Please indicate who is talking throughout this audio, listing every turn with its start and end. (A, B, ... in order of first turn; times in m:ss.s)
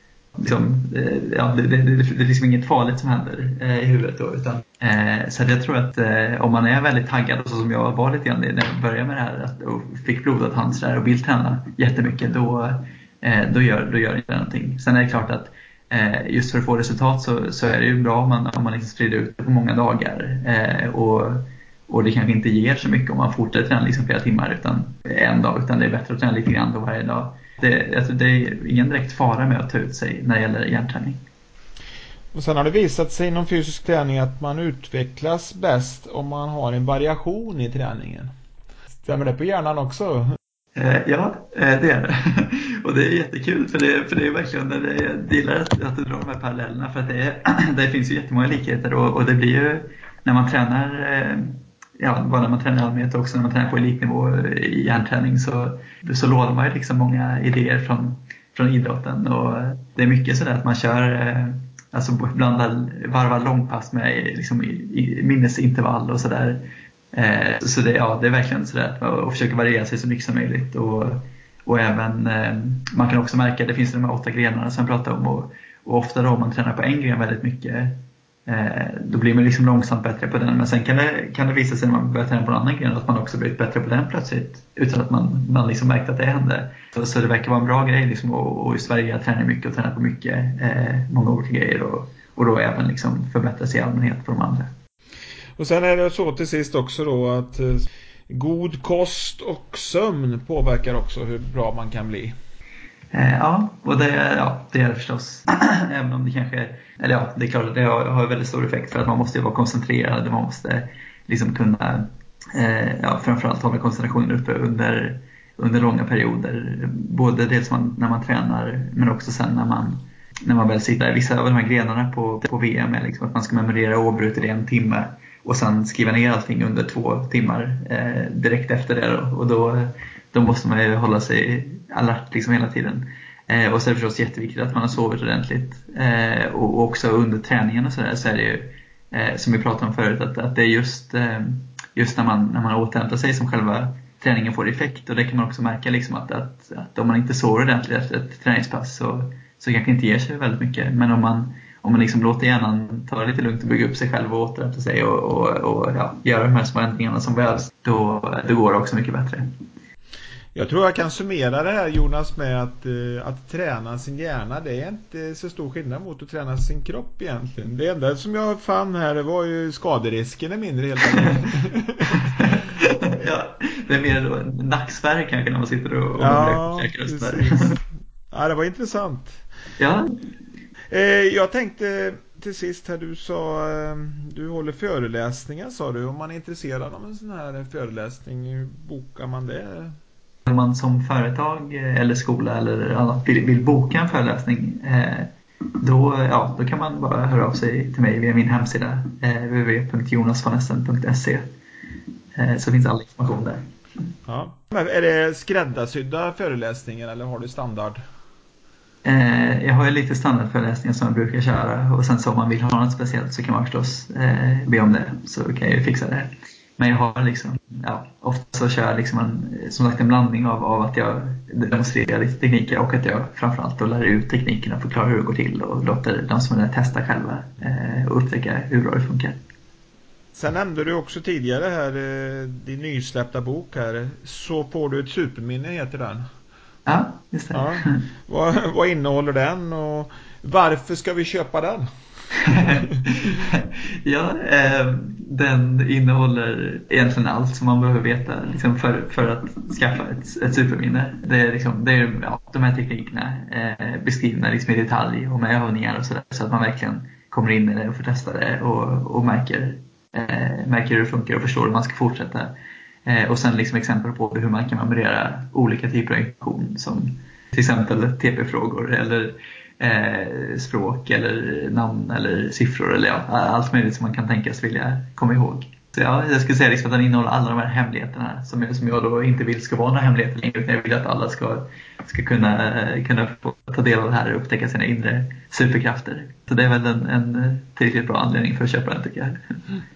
0:00.4-0:31.2 A
0:32.3-0:38.3 B
0:38.9-0:40.4 B
0:40.8-1:34.7 A
1:35.6-1:42.4 B
1:43.1-2:39.5 A
2:40.6-2:52.6 B
2:52.1-2:57.8 A
2:56.2-2:59.4 B
2:59.8-3:00.1 A
3:00.9-3:10.0 B
3:10.5-3:21.5 A
3:22.4-3:23.6 A
3:24.3-3:28.0 B
3:29.0-3:49.4 A
3:50.3-3:56.3 B
3:56.9-3:58.0 A
3:57.5-4:01.9 B
4:02.4-4:22.5 A
4:02.4-4:03.1 B
4:23.0-4:49.4 A